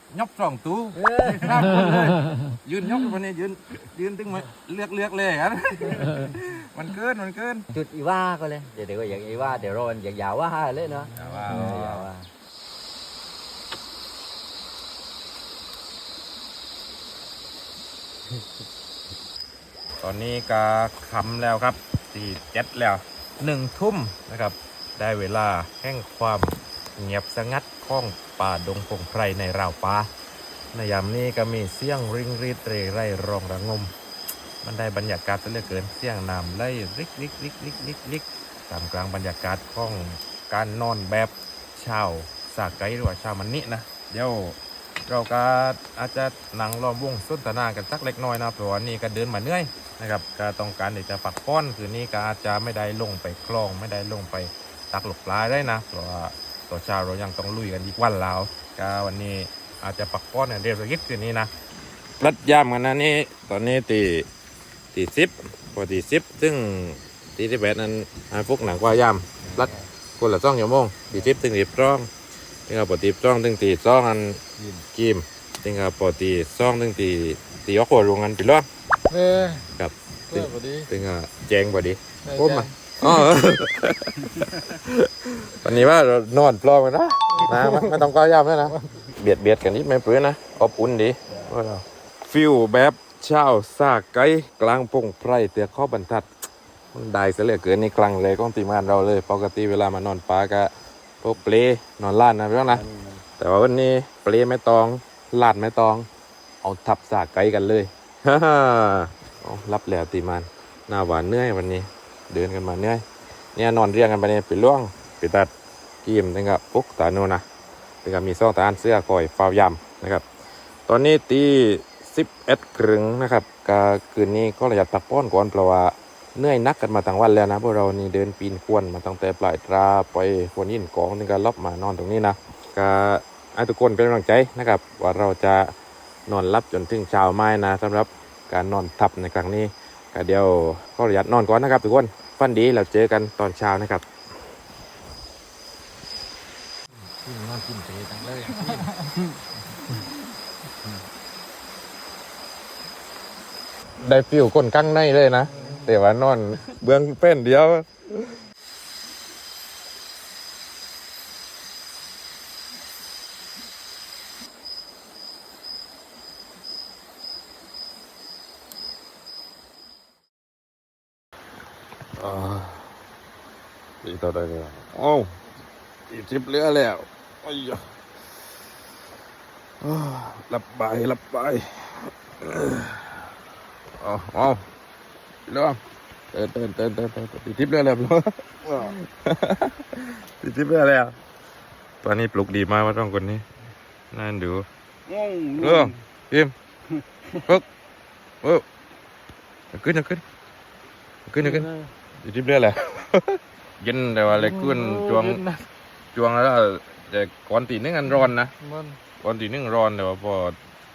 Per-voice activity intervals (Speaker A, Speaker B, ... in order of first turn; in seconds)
Speaker A: 0.1-7.7, 11.2-12.1, 20.0-30.1, 30.7-33.9, 34.6-61.5, 62.2-64.3, 64.9-72.1, 72.7-74.4, 74.9-78.7, 79.7-96.3, 96.9-102.8, 103.4-106.1, 106.6-113.0, 113.6-115.5, 116.0-117.4, 118.0-120.2, 120.9-135.7, 136.3-144.1, 147.2-149.0, 154.0-158.4, 172.2-172.9, 174.0-175.3, 176.1-177.8, 179.8-183.2, 184.0-184.7, 185.5-185.8, 186.3-191.2, 192.0-193.4, 194.1-194.7, 195.6-196.5, 199.7-200.2, 201.3-205.5, 206.1-208.6, 209.2-210.6
Speaker B: 0.9-1.8, 7.7-12.3, 69.5-69.8, 102.7-103.2, 195.1-195.9
Speaker C: 79.1-79.6, 80.4-80.9, 82.3-82.7, 204.9-205.6, 208.6-209.0